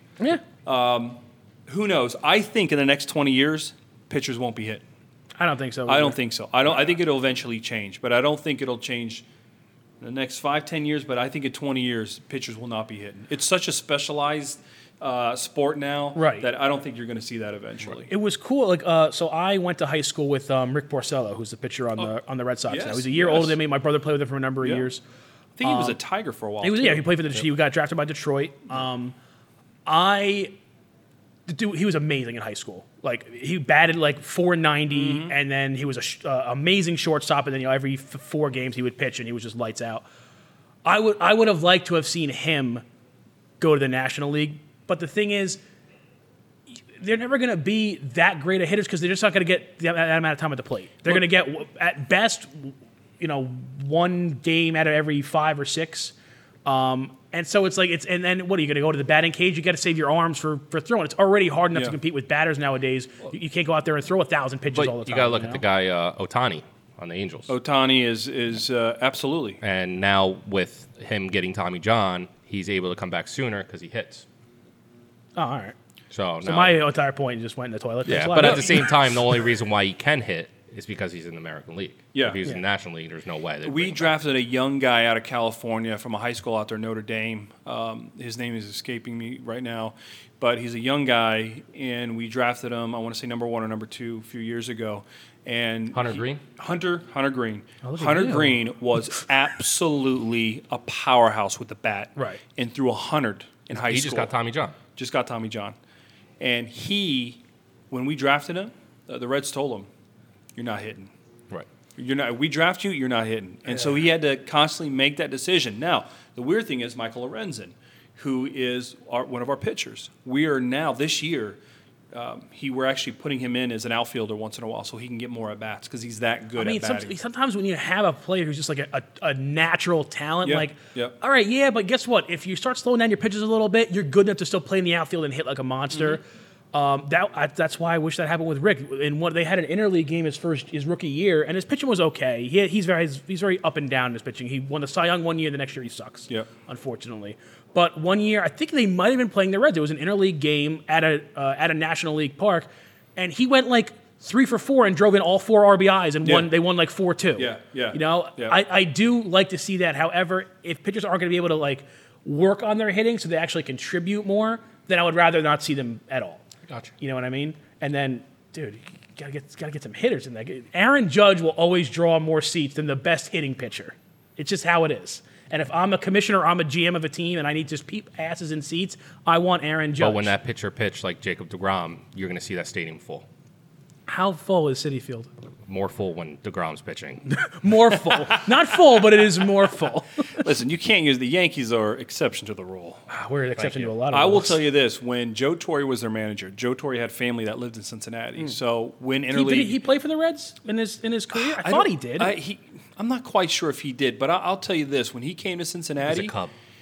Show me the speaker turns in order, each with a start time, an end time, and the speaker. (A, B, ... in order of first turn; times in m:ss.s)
0:00.6-0:04.8 A
0:05.4-0:06.2 B
0:05.9-0:09.2 A
0:10.0-0:18.1 A
0:16.1-0:16.5 B
0:18.1-0:25.0 B
0:22.7-0:23.6 A
0:25.6-0:27.4 A
0:25.6-0:26.0 B
0:26.6-0:29.2 B
0:29.8-0:30.6 B
0:31.5-0:40.0 B
0:34.9-0:35.3 A
0:40.8-0:42.8 B
0:43.6-0:45.6 B
0:47.0-0:56.1 B
0:56.6-1:05.6 B
1:04.7-1:07.5 C
1:07.5-1:09.6 A
1:09.6-1:14.2 C
1:15.4-1:15.7 B
1:16.1-1:16.8 C
1:16.4-1:19.2 B
1:18.0-1:24.1 C
1:18.4-1:18.8 A
1:22.1-1:22.5 A
1:23.6-1:44.3 A
1:35.9-1:36.4 C
1:37.8-1:39.2 B
1:42.2-1:42.4 B
1:43.7-1:44.8 C
1:44.9-1:45.8 A
1:46.4-1:47.4 A
1:47.9-1:49.9 A
1:50.6-1:51.1 A
1:52.0-2:01.6 A
2:02.1-2:07.1 A
2:06.6-2:16.2 B
2:10.4-2:11.2 A
2:16.7-2:46.4 B
2:36.2-2:36.5 A
2:37.4-2:38.6 A
2:47.0-3:00.3 B
3:00.0-3:03.2 C
3:04.1-3:05.3 B
3:05.6-3:07.2 C
3:07.3-3:10.2 B
3:10.4-3:13.0 A
3:13.1-3:14.6 B
3:13.6-3:19.8 A
3:19.3-3:22.3 B
3:21.3-3:26.3 A
3:26.0-3:26.5 C